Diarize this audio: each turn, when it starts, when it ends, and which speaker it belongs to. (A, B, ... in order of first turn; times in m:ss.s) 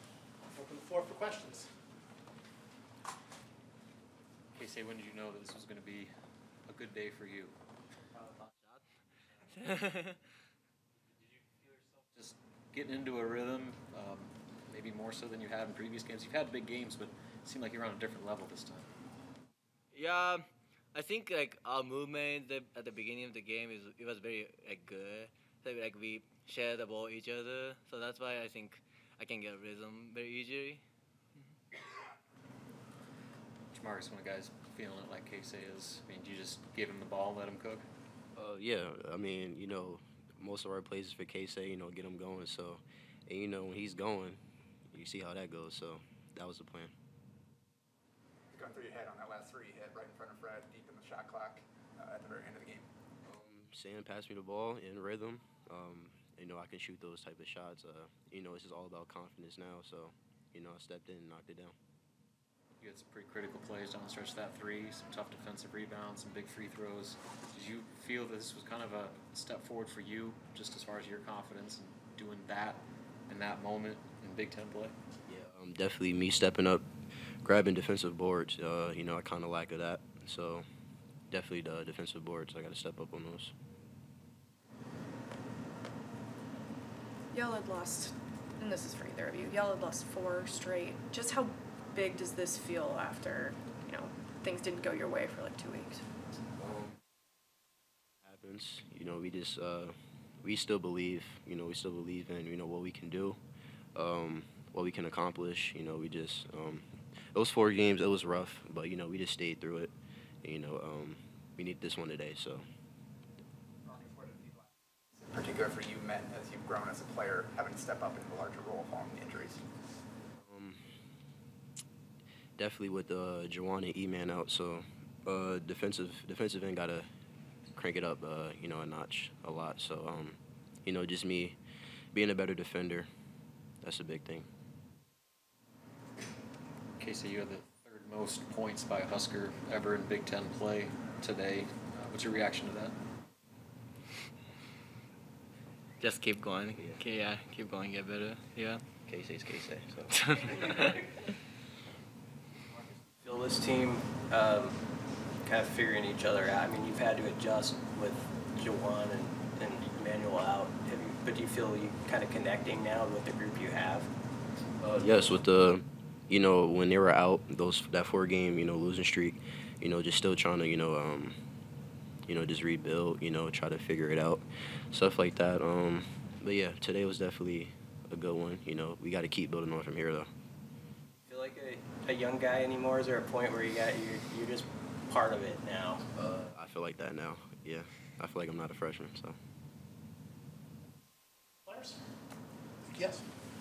0:00.5-0:01.8 A
0:04.6-0:06.1 B
0:06.7-0:07.5 B
0:08.4-0:10.2 C
0:12.2-0:18.9 B
0:19.9-0:30.8 C
0:33.7-0:37.9 B
0:38.4-0:47.0 D
0:48.5-0:52.9 E
0:53.2-1:01.8 D
1:02.8-1:14.9 B
1:15.3-1:16.9 D
1:17.4-1:20.7 D
1:21.3-1:23.5 D
1:27.3-1:36.1 F
1:38.2-1:43.4 D
1:44.0-1:52.7 D
1:53.8-1:59.6 E
2:00.4-2:01.0 D
2:02.6-2:07.1 D
2:07.7-2:11.6 D
2:12.1-2:13.1 D
2:13.8-2:14.5 D
2:17.0-2:23.0 B
2:26.0-2:28.8 C
2:26.8-2:27.0 D
2:29.0-2:30.2 D
2:30.1-2:31.1 C
2:30.5-2:31.0 G
2:33.2-2:34.8 G
2:35.4-2:44.1 G
2:44.8-2:51.4 D
2:52.3-3:00.3 D
3:01.2-3:06.0 G
3:06.2-3:09.4 D
3:11.6-3:12.0 A
3:12.9-3:13.2 A